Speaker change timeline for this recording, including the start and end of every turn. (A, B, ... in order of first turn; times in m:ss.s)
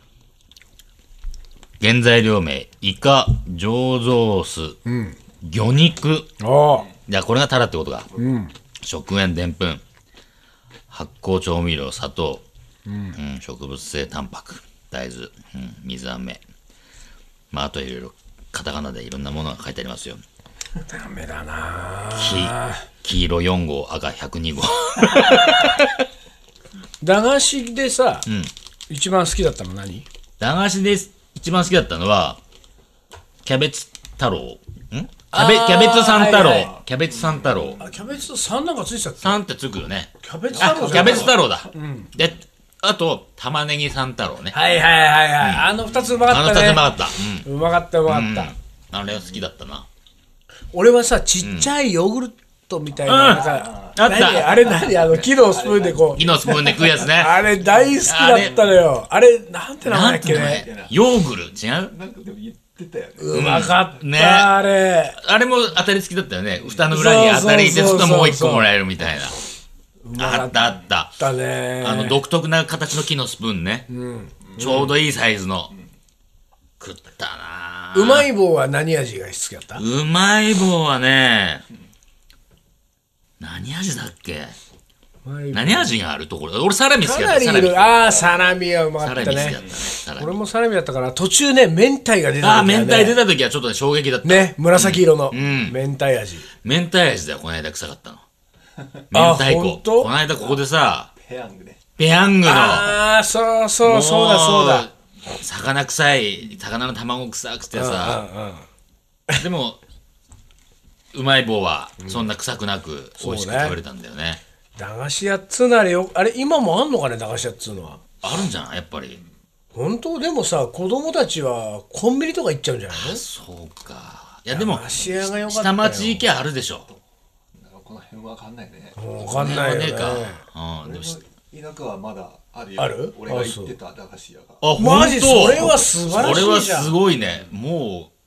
0:01.8-0:04.8 A
0:04.8-0:05.2 B
0:05.4-0:06.3 A
0:06.4-0:06.8 B
0:07.1-0:08.1 A
0:08.2-0:08.5 B
0:08.8-0:09.8 A
0:10.9-0:12.4 A
0:12.9-0:13.2 B
0:13.1-0:16.4 A
0:17.5-0:20.2 A
0:20.9-0:22.8 B
0:22.2-0:26.0 A
0:27.0-0:28.3 B
0:28.2-0:28.5 A
0:28.9-0:30.0 B
0:30.4-0:32.4 A
0:33.4-0:37.8 A
0:35.3-0:36.7 B
0:37.3-0:38.0 C
0:37.8-0:39.4 B
0:39.2-0:44.6 A
0:40.2-0:42.1 B
0:40.6-0:41.4 C
0:44.5-0:46.8 B
0:45.4-0:45.7 A
0:46.3-0:47.4 A
0:47.4-0:48.5 B
0:48.1-0:49.9 A
0:50.7-0:56.2 B
0:51.4-0:51.7 A
0:53.1-0:54.6 A
0:53.1-0:57.1 C
0:56.2-0:57.4 A
0:57.1-1:00.6 B
0:58.0-0:58.6 A
0:59.8-1:01.9 A
1:00.3-1:01.0 C
1:01.9-1:03.8 C
1:03.2-1:05.2 B
1:03.3-1:04.5 A
1:05.2-1:09.3 A
1:06.9-1:08.7 B
1:10.0-1:10.6 B
1:10.2-1:11.1 A
1:11.2-1:12.2 B
1:11.8-1:13.9 A
1:13.9-1:14.3 B
1:14.5-1:14.9 C
1:14.6-1:15.7 A
1:16.8-1:18.3 A
1:17.9-1:19.8 B
1:19.8-1:21.6 A
1:23.4-1:24.6 A
1:25.2-1:25.9 B
1:25.5-1:27.8 A
1:27.0-1:29.6 B
1:28.0-1:28.5 C
1:29.0-1:30.3 A
1:29.4-1:29.8 C
1:30.2-1:33.2 B
1:32.4-1:35.7 A
1:34.2-1:36.5 B
1:36.6-1:38.2 A
1:39.1-1:41.1 A
1:39.1-1:40.1 B
1:41.2-1:41.8 C
1:42.0-1:42.9 A
1:42.4-1:44.9 B
1:43.8-1:48.2 A
1:47.7-1:48.6 B
1:49.4-1:49.8 A
1:51.1-1:54.4 A
1:52.0-1:52.3 B
1:53.2-1:53.8 B
1:54.8-1:58.0 B
1:58.2-1:59.2 A
1:59.7-2:03.2 B
2:02.9-2:06.9 A
2:04.5-2:06.2 B
2:07.5-2:09.6 C
2:09.0-2:10.4 B
2:09.3-2:11.2 A
2:10.8-2:14.7 C
2:12.8-2:13.7 B
2:14.6-2:18.1 A
2:14.8-2:16.9 B
2:15.9-2:16.6 C